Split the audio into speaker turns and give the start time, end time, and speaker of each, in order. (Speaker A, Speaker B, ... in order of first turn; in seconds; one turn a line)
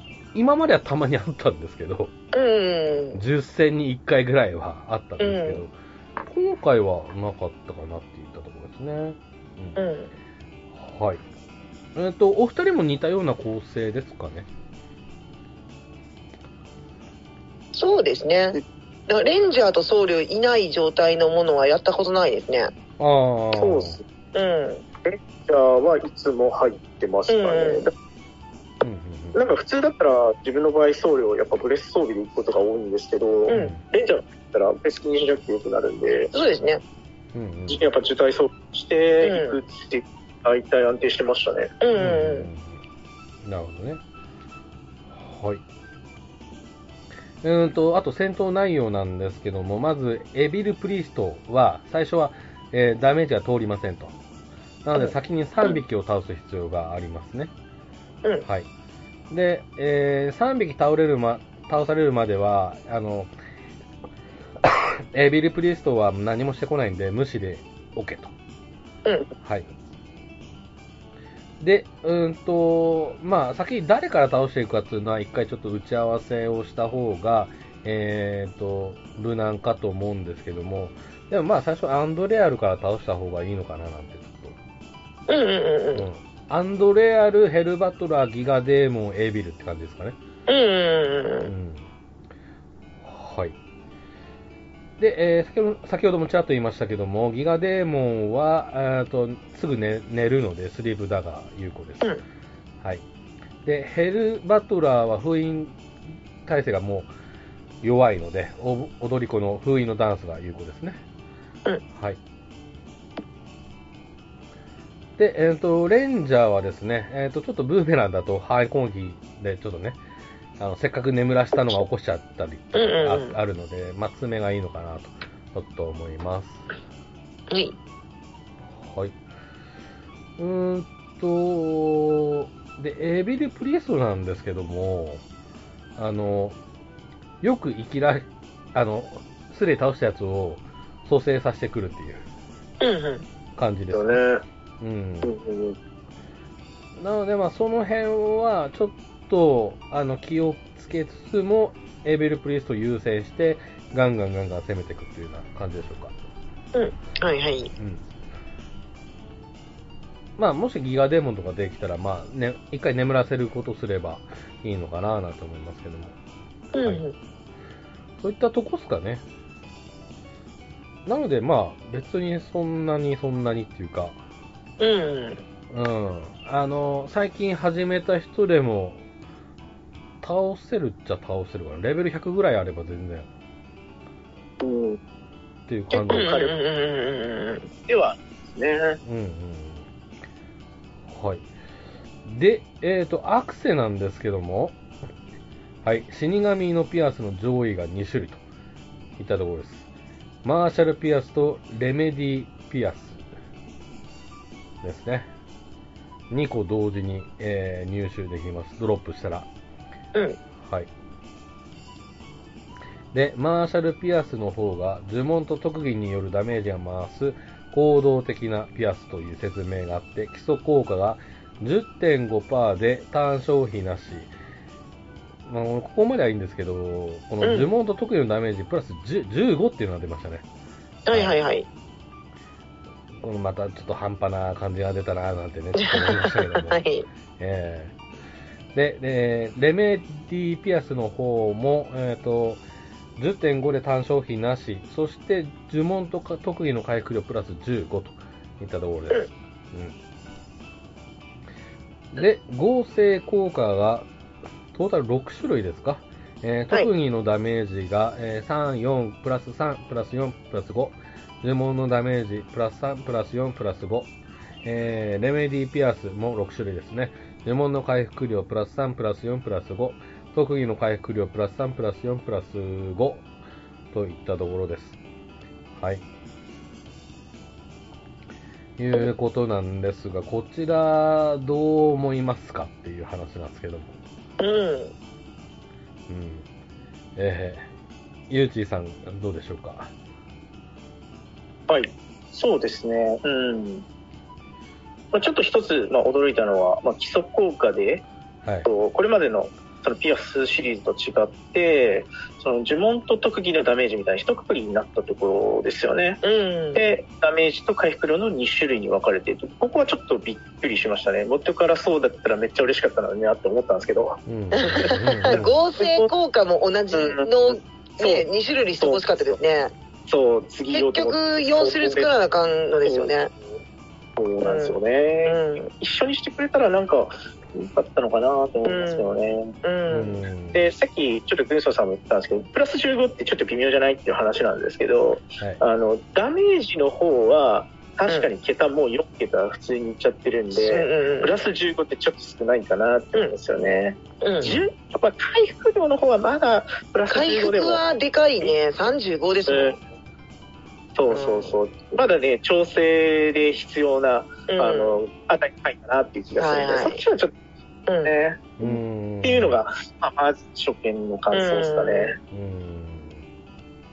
Speaker A: 0.3-2.1
Speaker B: 2.3-3.2
Speaker A: 3.1-9.8
Speaker B: 5.2-5.6
Speaker B: 9.8-10.1
Speaker A: 10.7-11.2
Speaker A: 11.9-14.5
Speaker B: 17.7-22.7
Speaker A: 23.0-24.0
Speaker C: 23.6-24.0
Speaker B: 24.4-24.8
Speaker C: 25.1-27.9
Speaker B: 27.3-27.9
Speaker A: 28.8-29.4
Speaker C: 29.3-36.3
Speaker B: 33.5-33.8
Speaker A: 33.5-33.8
Speaker B: 36.3-36.8
Speaker A: 37.3-37.8
Speaker C: 37.7-41.7
Speaker B: 39.2-39.6
Speaker B: 41.8-42.5
Speaker A: 42.0-42.8
Speaker A: 43.4-44.0
Speaker A: 45.1-45.6
Speaker A: 47.4-54.1
Speaker A: 54.8-57.5
Speaker A: 59.3-63.3
Speaker A: 64.6-68.3
Speaker B: 69.0-69.3
Speaker A: 69.4-69.7
Speaker A: 71.6-84.6
Speaker B: 85.3-86.1
Speaker A: 86.0-90.2
Speaker B: 90.5-91.5
Speaker A: 91.5-91.9
Speaker A: 93.0-93.6
Speaker A: 95.0-102.1
Speaker A: 103.6-105.8
Speaker A: 106.4-107.1
Speaker A: 107.8-111.0
Speaker A: 111.9-112.2
Speaker A: 115.2-120.0
Speaker A: 120.6-126.7
Speaker B: 122.8-123.4
Speaker B: 127.5-127.8
Speaker A: 128.7-129.2
Speaker A: 130.4-135.2
Speaker A: 136.0-136.6
Speaker A: 137.4-142.2
Speaker B: 142.8-143.2
Speaker A: 143.6-144.2
Speaker C: 143.9-144.4
Speaker A: 144.8-145.4
Speaker C: 145.2-145.8
Speaker A: 147.0-156.1
Speaker B: 156.7-157.7
Speaker A: 157.8-158.0
Speaker A: 160.4-166.2
Speaker B: 166.7-167.2
Speaker A: 168.2-169.2
Speaker A: 171.0-174.2
Speaker B: 174.8-175.4
Speaker A: 175.7-179.0
Speaker A: 180.2-183.3
Speaker C: 184.6-185.0
Speaker A: 185.7-186.3
Speaker C: 185.9-186.6
Speaker B: 186.1-187.7
Speaker C: 187.9-189.0
Speaker A: 189.0-189.9
Speaker A: 191.1-191.5
Speaker A: 192.2-194.8
Speaker A: 195.8-198.4
Speaker A: 199.2-199.9
Speaker A: 200.4-203.2
Speaker A: 204.8-205.3
Speaker A: 206.3-209.5
Speaker A: 210.6-210.9
Speaker A: 213.1-224.3
Speaker A: 225.5-230.4
Speaker B: 227.4-227.7
Speaker B: 231.1-231.7
Speaker A: 231.1-231.4
Speaker A: 233.2-236.8
Speaker B: 235.8-237.1
Speaker A: 237.4-237.9
Speaker A: 238.7-242.6
Speaker A: 243.2-250.0
Speaker A: 252.1-254.1
Speaker A: 254.7-264.1
Speaker A: 264.6-273.2
Speaker A: 273.9-275.0
Speaker A: 275.8-276.0
Speaker A: 278.8-284.0
Speaker B: 284.4-284.9
Speaker A: 286.1-286.5
Speaker A: 287.2-287.7
Speaker A: 288.3-289.9
Speaker C: 291.7-293.9
Speaker C: 295.1-298.0
Speaker C: 298.7-306.2
Speaker B: 306.2-306.8
Speaker C: 306.7-316.1
Speaker A: 314.3-315.6
Speaker B: 314.5-319.7
Speaker C: 316.9-318.2
Speaker C: 318.8-319.4
Speaker C: 320.1-322.1
Speaker B: 320.7-323.3
Speaker C: 322.9-323.1
Speaker C: 324.2-329.5
Speaker B: 324.4-325.7
Speaker B: 328.6-329.1
Speaker B: 329.6-330.2
Speaker A: 329.9-330.6
Speaker C: 330.5-347.8
Speaker B: 340.5-341.4
Speaker B: 344.2-344.5
Speaker A: 344.4-344.7
Speaker B: 347.1-349.8
Speaker C: 349.5-349.8
Speaker C: 350.9-357.3
Speaker B: 351.1-351.6
Speaker B: 354.5-355.0
Speaker B: 356.4-357.0
Speaker B: 357.9-358.1
Speaker C: 358.0-362.2
Speaker A: 358.6-359.6
Speaker B: 361.3-362.1
Speaker A: 362.3-363.2